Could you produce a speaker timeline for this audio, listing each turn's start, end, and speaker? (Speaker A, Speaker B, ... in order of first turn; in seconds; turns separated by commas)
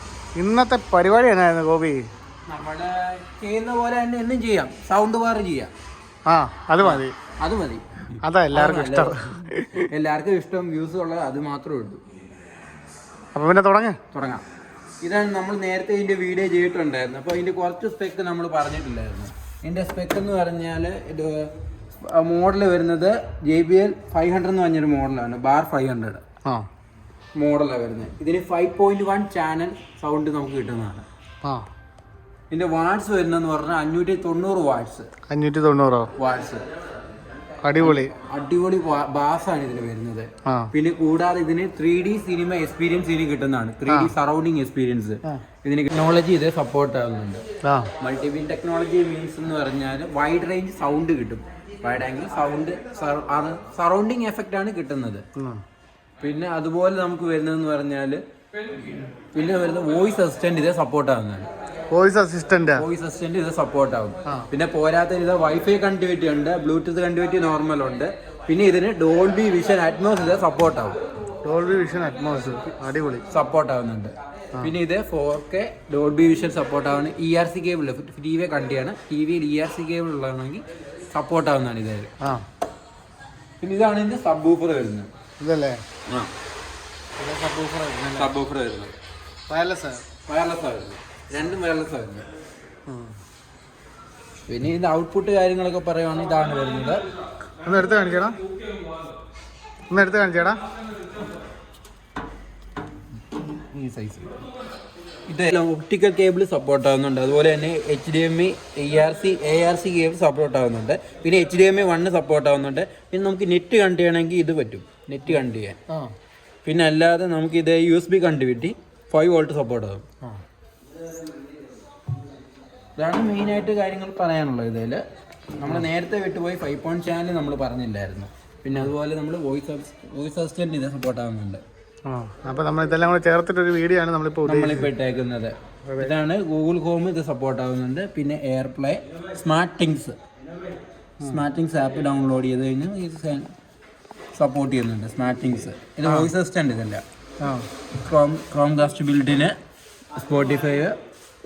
Speaker A: 0.3-2.1, Speaker B: 2.5-5.7, Speaker A: 6.2-7.1, Speaker B: 6.8-12.0, Speaker A: 8.2-9.9, Speaker A: 13.3-14.0, Speaker B: 14.1-14.4, Speaker B: 15.0-26.2, Speaker B: 27.3-31.1, Speaker B: 32.5-35.1, Speaker A: 35.3-36.1, Speaker B: 36.2-36.6, Speaker A: 37.6-38.1, Speaker B: 37.8-47.4, Speaker A: 43.9-44.1, Speaker A: 47.6-47.9, Speaker B: 48.0-55.2, Speaker A: 55.4-55.6, Speaker B: 56.2-58.2, Speaker B: 59.3-61.5, Speaker A: 61.9-62.8, Speaker B: 62.8-71.0, Speaker A: 71.4-73.2, Speaker B: 73.3-82.1, Speaker B: 83.6-85.1, Speaker A: 85.4-85.8, Speaker A: 87.2-88.3, Speaker B: 88.2-88.9, Speaker A: 89.5-90.0, Speaker B: 90.3-92.2, Speaker A: 92.9-93.1, Speaker B: 94.5-97.0, Speaker A: 97.6-98.4, Speaker A: 99.9-100.6, Speaker B: 103.4-104.3, Speaker B: 105.3-115.8, Speaker B: 116.6-120.0, Speaker B: 123.0-125.0, Speaker B: 125.6-131.6, Speaker A: 132.1-134.9, Speaker B: 134.4-140.2, Speaker A: 135.8-136.1, Speaker B: 141.2-143.5, Speaker B: 144.3-147.0, Speaker A: 146.0-146.3, Speaker A: 147.4-147.7, Speaker B: 147.9-149.6, Speaker B: 150.1-151.0